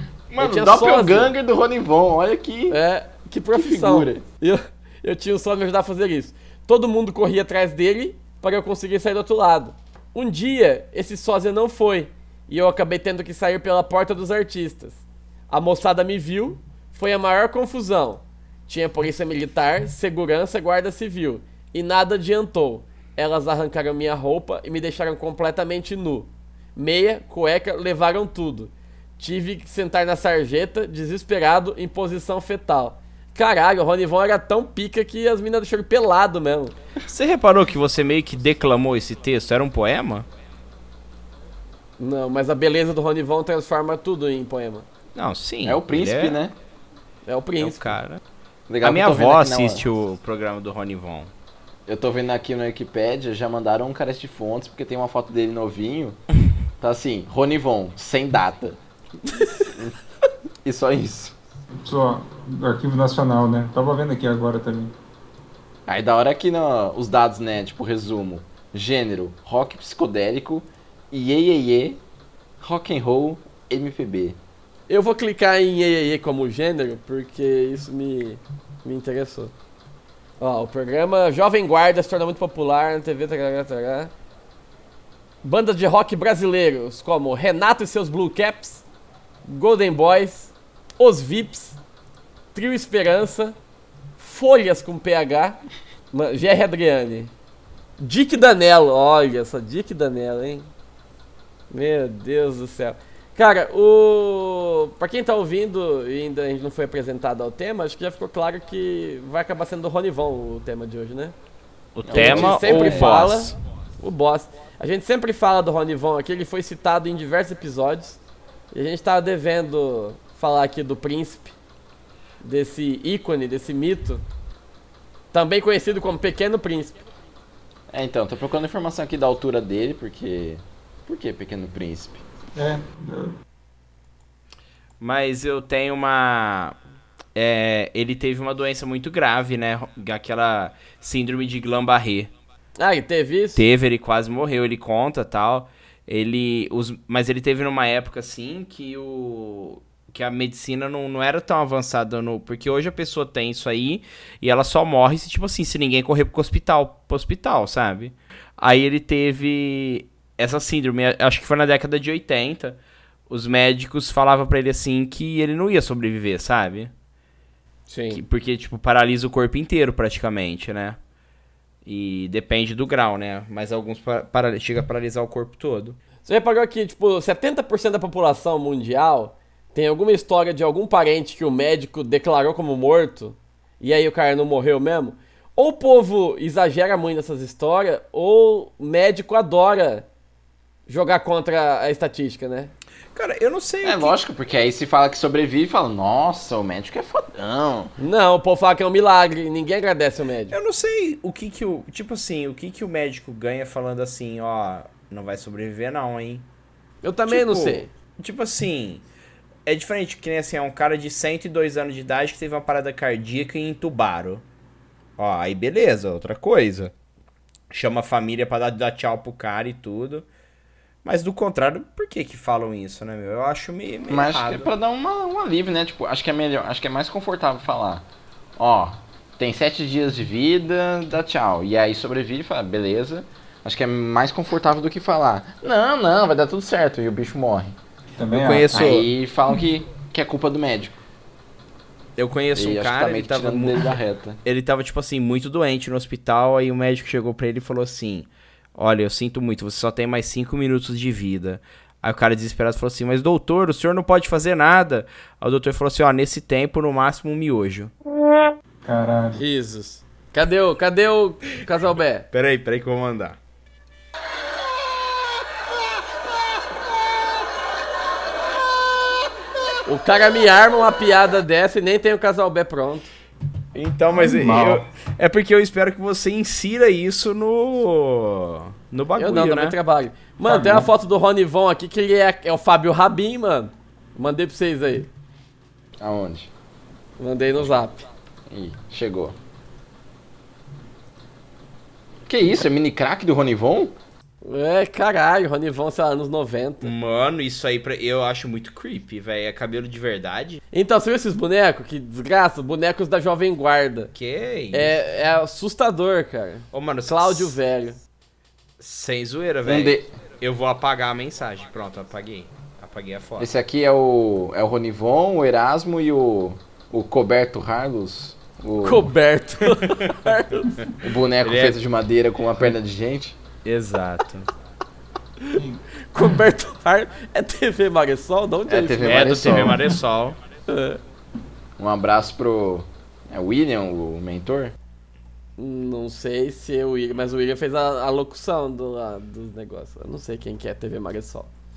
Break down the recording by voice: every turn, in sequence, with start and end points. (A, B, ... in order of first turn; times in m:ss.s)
0:00.3-0:02.8 A
0:00.4-0:01.3 B
0:02.7-0:36.7 B
0:03.6-0:04.2 A
0:37.1-0:40.3 C
0:42.0-0:44.9 B
0:45.2-0:46.4 C
0:45.6-0:46.6 A
0:47.3-0:48.0 B
0:47.6-0:48.2 C
0:48.7-0:49.8 A
0:48.8-0:51.3 C
0:51.9-0:56.2 A
0:56.8-0:58.8 A
0:59.7-0:59.9 A
1:00.6-1:01.4 A
1:01.7-1:04.9 D
1:05.9-1:12.0 A
1:12.6-1:14.4 A
1:14.9-1:19.5 B
1:20.4-1:24.1 B
1:25.4-1:28.8 B
1:29.4-1:31.8 B
1:32.5-1:33.6 B
1:34.2-1:35.6 B
1:36.1-1:37.3 B
1:38.0-1:40.7 B
1:41.7-1:51.4 B
1:52.0-1:53.5 C
1:52.0-1:53.2 A
1:52.1-1:58.2 B
1:58.7-2:01.5 B
2:02.4-2:04.2 B
2:05.3-2:07.0 B
2:07.9-2:12.2 A
2:12.6-2:13.4 D
2:15.0-2:16.8 C
2:17.4-2:22.3 C
2:22.8-2:23.6 B
2:23.6-2:46.9 C
2:47.9-2:48.2 B
2:48.1-2:51.0 C
2:51.8-2:56.0 C
2:56.2-3:10.1 B
3:10.9-3:12.7 B
3:13.1-3:14.2 C
3:13.8-3:17.9 A
3:18.0-3:20.6 B
3:20.5-3:26.5 C
3:27.0-3:27.9 B
3:27.3-3:29.0 C
3:29.7-3:34.4 C
3:35.2-3:36.9 C
3:37.7-3:40.3 C
3:41.0-3:44.7 C
3:44.1-3:57.8 A
3:58.2-3:58.9 D
3:58.3-3:59.1 C
3:58.7-4:00.9 A
4:02.2-4:17.9 C
4:02.6-4:04.4 A
4:18.8-4:19.4 D
4:19.4-4:22.3 B
4:22.3-4:23.4 C
4:29.9-4:33.1 B
4:33.7-4:39.8 C
4:34.1-4:34.8 D
4:39.2-4:45.1 B
4:40.4-4:40.9 D
4:46.0-4:46.5 A
4:47.2-4:48.1 B
4:48.5-4:49.4 A
4:52.3-4:53.9 A
4:54.4-4:56.9 B
4:56.8-5:00.6 C
5:00.7-5:04.1 B
5:04.1-5:05.0 C
5:04.7-5:08.0 B
5:06.7-5:07.6 C
5:08.8-5:13.5 C
5:09.6-5:10.1 A
5:13.4-5:19.1 A
5:18.8-5:20.8 B
5:19.9-5:20.1 C
5:21.0-5:23.4 A
5:21.4-5:21.8 C
5:23.6-5:24.5 C
5:25.5-5:25.8 D
5:26.1-5:29.4 B
5:28.7-5:29.8 A
5:29.0-5:30.4 C
5:30.7-5:31.0 B
5:31.8-5:34.8 A
5:35.6-5:41.5 B